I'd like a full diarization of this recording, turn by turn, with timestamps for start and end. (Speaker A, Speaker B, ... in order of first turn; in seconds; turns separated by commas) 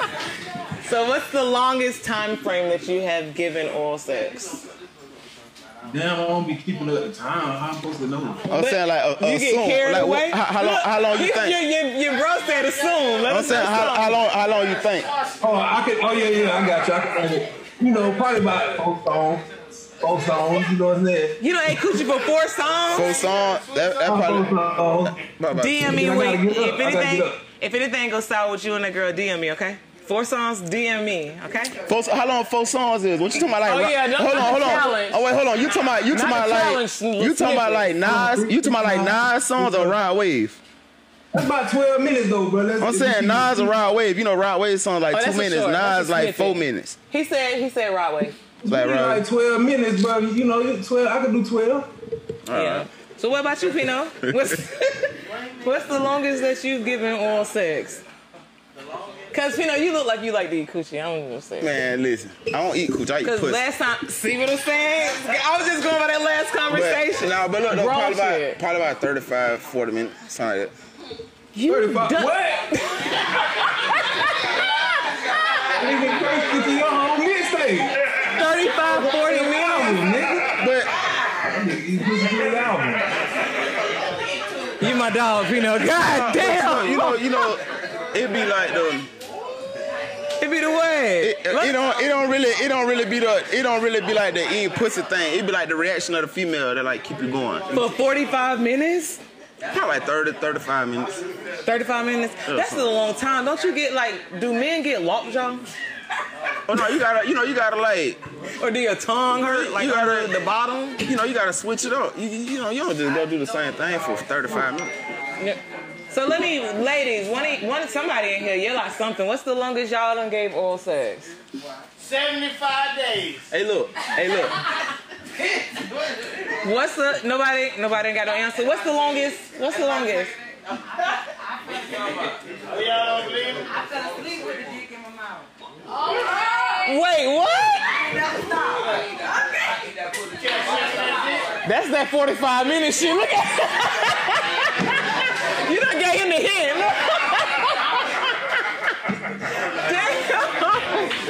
Speaker A: 0.8-4.6, Speaker B: 5.9-8.4, Speaker C: 8.5-11.6, Speaker A: 8.5-14.2, Speaker C: 13.2-15.1, Speaker B: 15.4-21.9, Speaker A: 21.4-23.2, Speaker C: 22.9-24.7, Speaker D: 23.2-24.6, Speaker B: 24.0-25.2, Speaker C: 25.2-25.9, Speaker A: 25.5-31.8, Speaker B: 25.8-27.4, Speaker C: 31.9-40.6, Speaker A: 33.5-35.2, Speaker A: 36.1-38.0, Speaker B: 38.0-40.0, Speaker B: 41.3-43.7, Speaker C: 42.8-47.0, Speaker A: 45.1-48.4, Speaker B: 48.6-51.9, Speaker C: 48.6-49.2, Speaker C: 52.5-52.8, Speaker A: 52.5-58.0, Speaker A: 59.3-61.8, Speaker C: 61.6-63.6, Speaker A: 63.2-68.6, Speaker C: 66.7-70.7, Speaker A: 71.5-74.6, Speaker B: 71.6-72.7, Speaker B: 75.8-78.0, Speaker A: 78.3-80.1, Speaker B: 78.9-80.6, Speaker C: 80.5-80.9, Speaker E: 81.1-81.5, Speaker B: 81.5-83.1, Speaker A: 84.8-87.5, Speaker C: 86.0-89.1, Speaker A: 90.4-91.8, Speaker C: 91.2-97.8, Speaker A: 97.7-99.2, Speaker C: 99.7-101.1, Speaker A: 101.6-105.6, Speaker C: 102.5-103.0, Speaker C: 106.6-108.2, Speaker A: 108.6-111.0, Speaker C: 109.5-110.3, Speaker C: 111.0-114.9, Speaker A: 116.1-121.3, Speaker D: 122.0-123.5, Speaker C: 123.5-124.6, Speaker E: 125.4-126.2, Speaker A: 126.6-130.3, Speaker E: 128.2-132.4, Speaker D: 132.7-133.7, Speaker E: 133.6-137.0, Speaker A: 136.8-137.9, Speaker E: 137.6-141.4, Speaker D: 140.3-141.5, Speaker A: 141.6-147.9, Speaker A: 149.8-151.2